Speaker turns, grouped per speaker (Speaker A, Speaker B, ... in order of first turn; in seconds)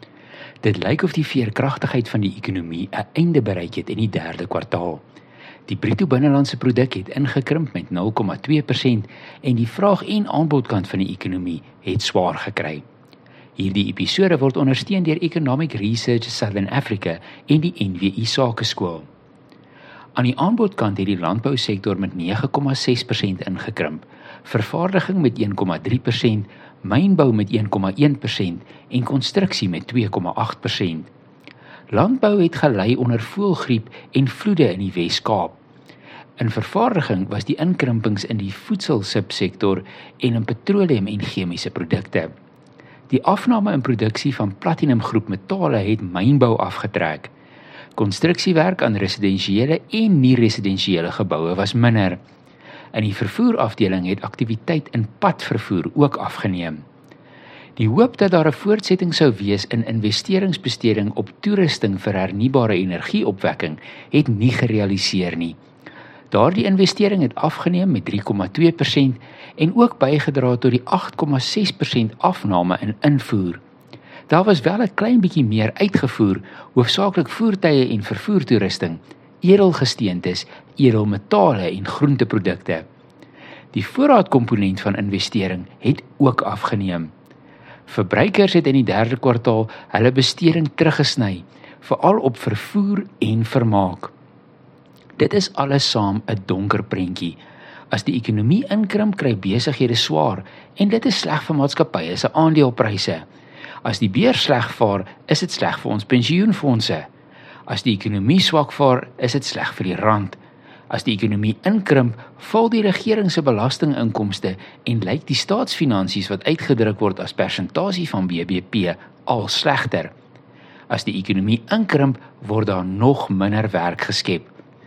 Speaker A: 0.6-5.0, 5.7-12.8, 13.6-19.1, 20.1-31.1, 31.9-35.6, 36.4-42.3, 43.1-47.3, 48.0-52.2, 52.9-56.8, 57.8-65.6, 66.3-73.6, 74.3-82.9, 83.7-87.1, 87.9-94.1, 95.2-97.4, 97.9-103.2, 103.8-107.1, 107.7-120.1, 120.9-124.5